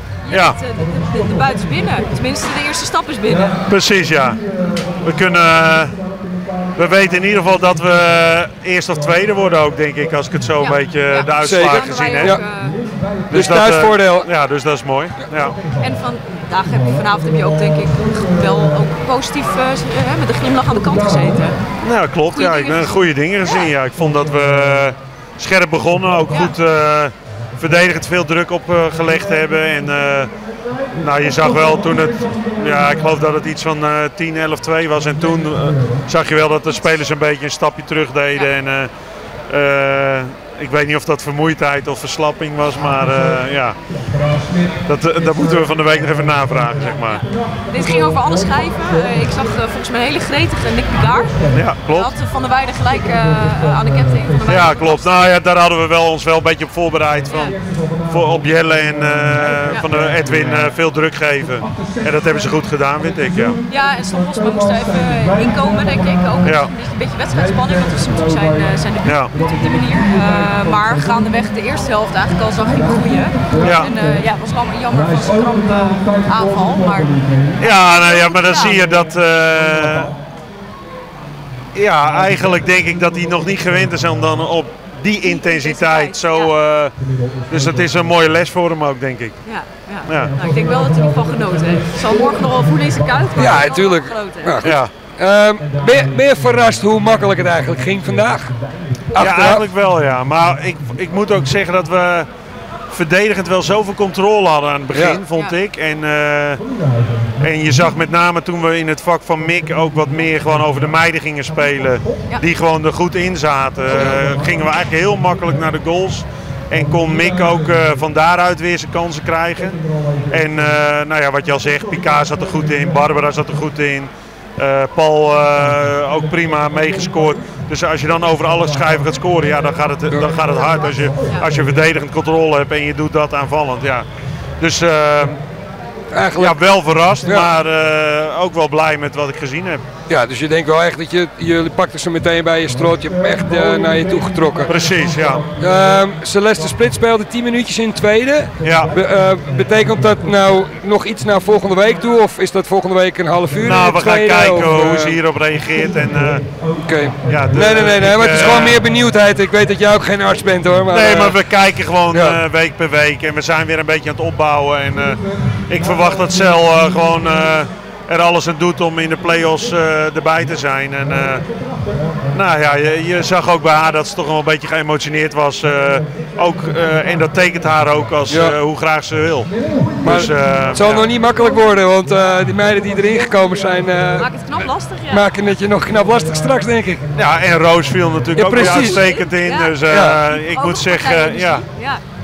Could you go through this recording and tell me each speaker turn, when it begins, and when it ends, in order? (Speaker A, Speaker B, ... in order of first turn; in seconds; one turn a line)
Speaker A: 0.2-3.7
Speaker B: 0.3-0.6
Speaker B: 3.6-6.0
Speaker B: 6.7-12.4
Speaker A: 10.6-12.8
Speaker C: 11.4-12.4
Speaker B: 13.3-15.6
Speaker C: 13.3-14.3
Speaker A: 15.7-21.6
Speaker B: 21.8-30.3
Speaker A: 22.3-23.8
Speaker A: 26.3-26.6
Speaker B: 30.9-38.9
Speaker B: 39.5-43.8
Speaker B: 44.8-47.2
Speaker A: 46.8-55.4
Speaker B: 51.5-52.1
Speaker B: 54.5-63.6
Speaker A: 57.2-57.6
Speaker A: 63.6-79.0
Speaker B: 66.4-66.7
Speaker B: 69.0-69.3
Speaker B: 73.6-73.9
Speaker B: 77.6-80.1
Speaker B: 81.7-86.9
Speaker A: 85.2-86.5
Speaker B: 87.5-89.4
Speaker A: 89.4-94.6
Speaker B: 90.0-90.3
Speaker C: 93.4-98.5
Speaker B: 94.6-94.9
Speaker C: 99.1-99.6
Speaker B: 99.2-102.3
Speaker B: 102.9-106.6
Speaker C: 104.9-105.2
Speaker A: 105.3-105.6
Speaker B: 107.4-134.1
Speaker A: 131.2-131.5
Speaker B: 134.6-135.4
Speaker C: 136.1-136.6
Speaker B: 136.3-139.8
Speaker C: 137.2-137.5
Speaker C: 140.1-144.7
Speaker B: 144.6-145.5
Speaker C: 145.5-155.2
Speaker B: 148.6-149.0
Speaker B: 153.6-156.4
Speaker C: 156.8-161.4
Speaker B: 157.2-158.8
Speaker B: 160.9-171.5
Speaker C: 162.1-162.4
Speaker B: 172.3-181.1
Speaker C: 178.3-178.6
Speaker C: 180.0-184.3
Speaker A: 184.2-185.2
Speaker C: 185.1-187.1
Speaker B: 187.1-191.6
Speaker C: 188.3-189.0
Speaker A: 188.9-192.0
Speaker C: 189.8-190.2